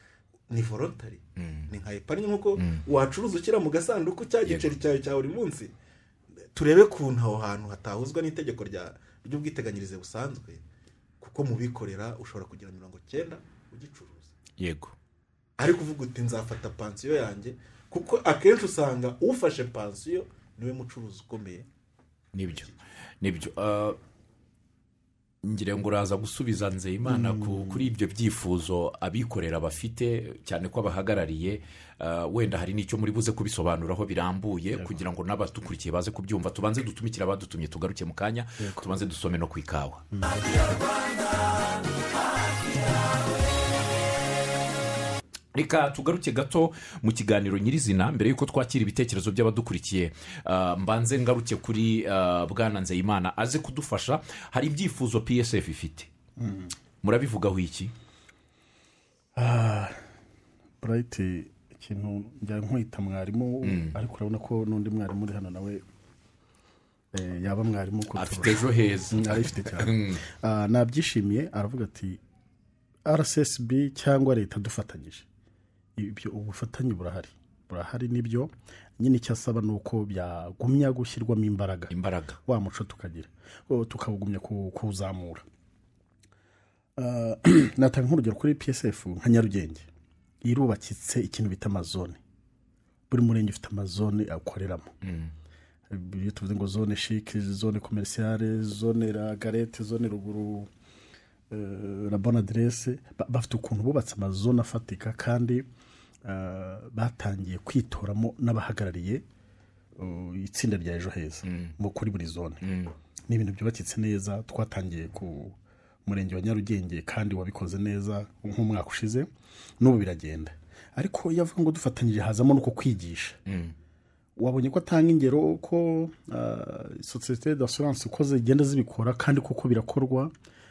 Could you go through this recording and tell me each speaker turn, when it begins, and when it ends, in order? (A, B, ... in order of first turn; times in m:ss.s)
0:00.5-0:05.7 A
0:01.4-0:01.7 B
0:02.6-0:02.8 B
0:04.4-0:04.7 B
0:06.5-0:10.6 A
0:11.2-0:14.3 A
0:14.6-0:14.9 B
0:15.6-0:21.7 A
0:22.3-0:24.0 B
0:25.4-0:43.0 B
0:27.0-0:27.9 C
0:38.6-0:38.9 C
0:40.1-0:40.8 C
0:45.5-0:56.1 B
0:56.4-0:56.7 C
0:57.0-0:57.9 B
0:59.3-0:59.9 C
1:00.8-1:05.8 C
1:03.6-1:04.0 B
1:07.1-1:12.2 C
1:08.1-1:10.2 B
1:13.0-1:15.2 C
1:16.0-1:21.9 C
1:21.9-1:22.4 B
1:22.4-1:25.4 C
1:27.0-1:29.9 C
1:30.4-1:32.2 C
1:33.1-1:34.9 C
1:35.0-1:35.3 B
1:35.9-1:40.7 C
1:41.5-1:45.6 C
1:46.2-1:49.2 C
1:50.0-1:52.6 C
1:51.4-1:51.7 B
1:52.6-1:52.9 B
1:53.3-1:59.3 C
1:59.8-2:03.4 C
2:03.4-2:03.7 B
2:04.4-2:10.3 C